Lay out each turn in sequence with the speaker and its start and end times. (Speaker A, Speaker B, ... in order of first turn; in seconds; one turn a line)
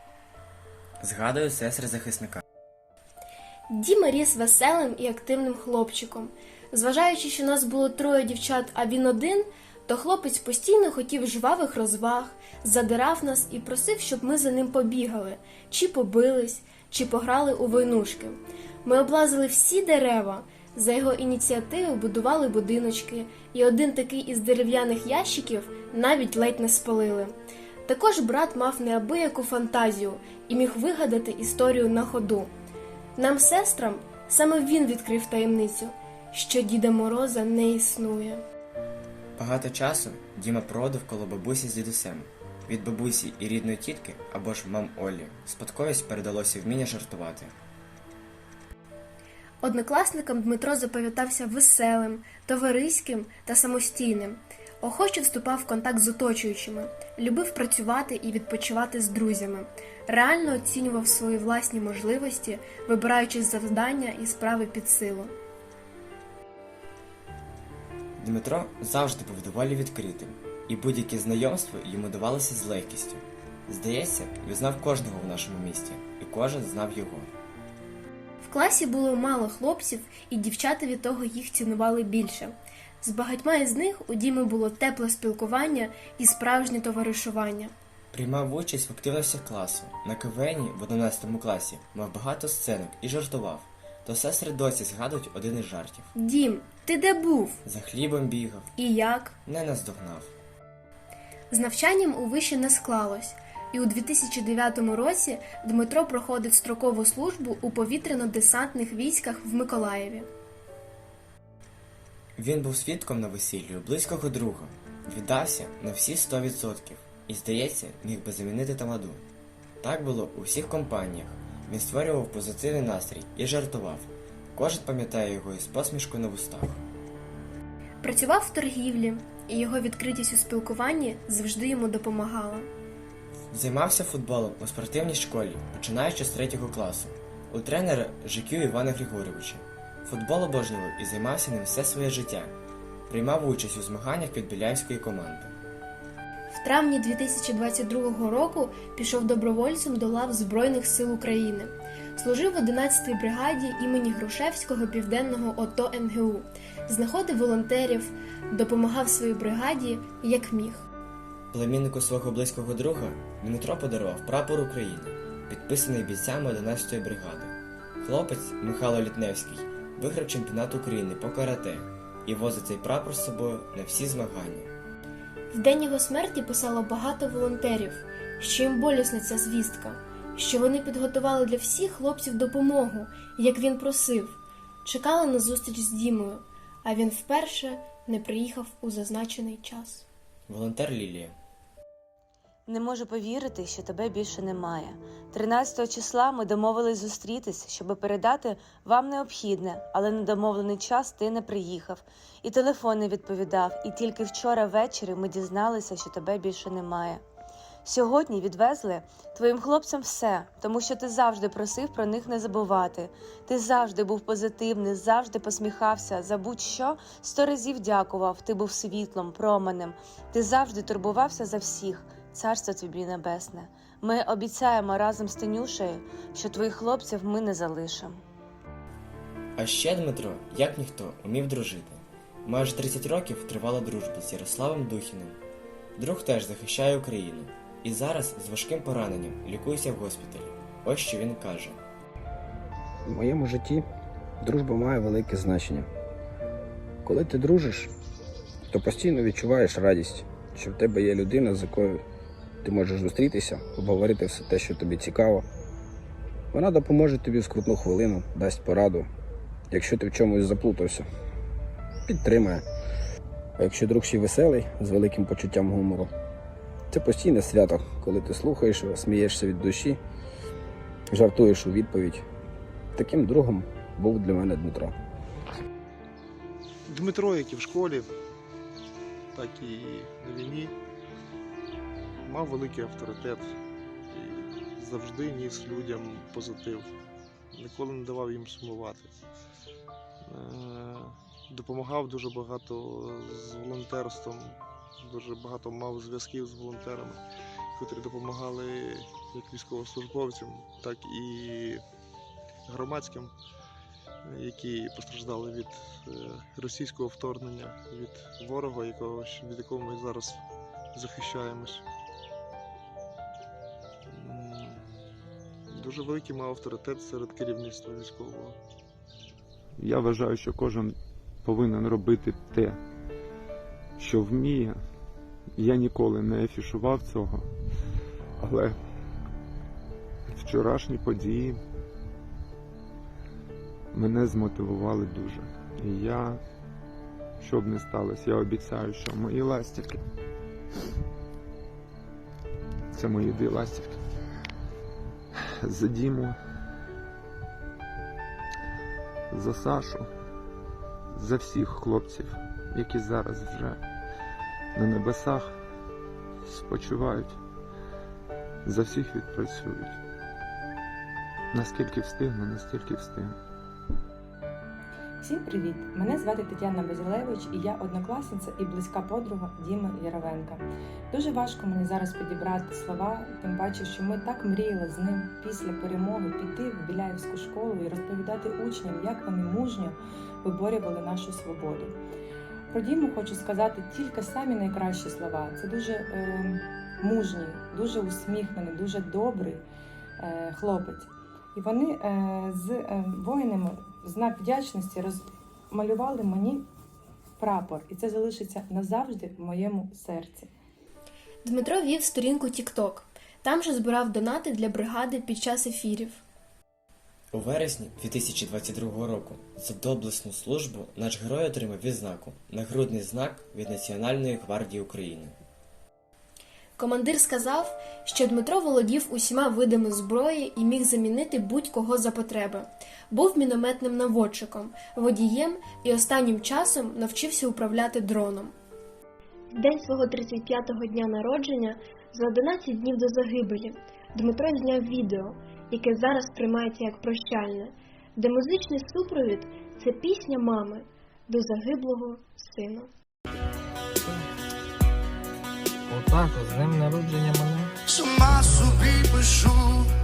Speaker A: 1.0-2.4
Speaker B: 3.7-27.3
Speaker B: 27.9-32.5
Speaker B: 33.2-38.4
Speaker A: 39.4-47.5
Speaker B: 49.6-65.3
Speaker A: 68.2-77.3
Speaker B: 78.4-87.7
Speaker A: 88.1-96.1
Speaker B: 96.1-97.6
Speaker A: 97.6-98.7
Speaker B: 98.8-99.3
Speaker A: 99.5-100.3
Speaker B: 101.5-110.3
Speaker A: 112.4-119.2
Speaker A: 119.8-126.8
Speaker B: 128.0-132.7
Speaker A: 133.5-142.5
Speaker A: 143.1-145.5
Speaker B: 146.5-160.9
Speaker A: 161.5-174.7
Speaker B: 175.5-190.0
Speaker A: 190.5-191.3
Speaker C: 192.7-207.2
Speaker C: 207.8-228.2
Speaker A: 229.6-235.4
Speaker A: 236.0-241.8
Speaker D: 243.1-243.8
Speaker D: 244.4-245.9
Speaker D: 247.0-247.9
Speaker D: 248.7-252.0
Speaker D: 252.6-255.4
Speaker D: 256.5-259.1
Speaker D: 259.7-261.0
Speaker D: 262.1-262.6
Speaker D: 263.6-266.1
Speaker D: 266.9-270.0
Speaker D: 271.1-272.2
Speaker D: 272.9-274.9
Speaker E: 276.9-278.1
Speaker E: 279.3-280.7
Speaker E: 282.3-283.5
Speaker E: 284.1-286.9
Speaker E: 287.5-289.1
Speaker E: 290.3-297.2
Speaker E: 297.8-301.8
Speaker E: 302.7-303.3
Speaker E: 304.2-310.4
Speaker E: 310.9-311.8
Speaker E: 314.1-314.8
Speaker E: 315.7-318.6
Speaker F: 319.8-322.8
Speaker F: 324.0-324.8
Speaker F: 325.6-327.5
Speaker F: 328.4-328.8
Speaker F: 330.3-331.6
Speaker F: 333.9-336.4
Speaker F: 337.4-340.0
Speaker F: 342.9-343.9
Speaker F: 345.6-346.4
Speaker F: 349.3-350.1
Speaker F: 351.1-353.8
Speaker F: 354.8-355.6
Speaker F: 356.4-357.4
Speaker F: 358.6-360.0
Speaker F: 361.5-363.4
Speaker G: 365.2-381.9
Speaker G: 382.7-389.6
Speaker G: 390.2-396.7
Speaker G: 397.4-400.5
Speaker B: 401.4-406.2
Speaker A: 407.3-415.4
Speaker B: 416.8-428.5
Speaker B: 429.5-442.9
Speaker H: 445.9-447.7
Speaker I: 447.9-449.9
Speaker H: 448.3-449.1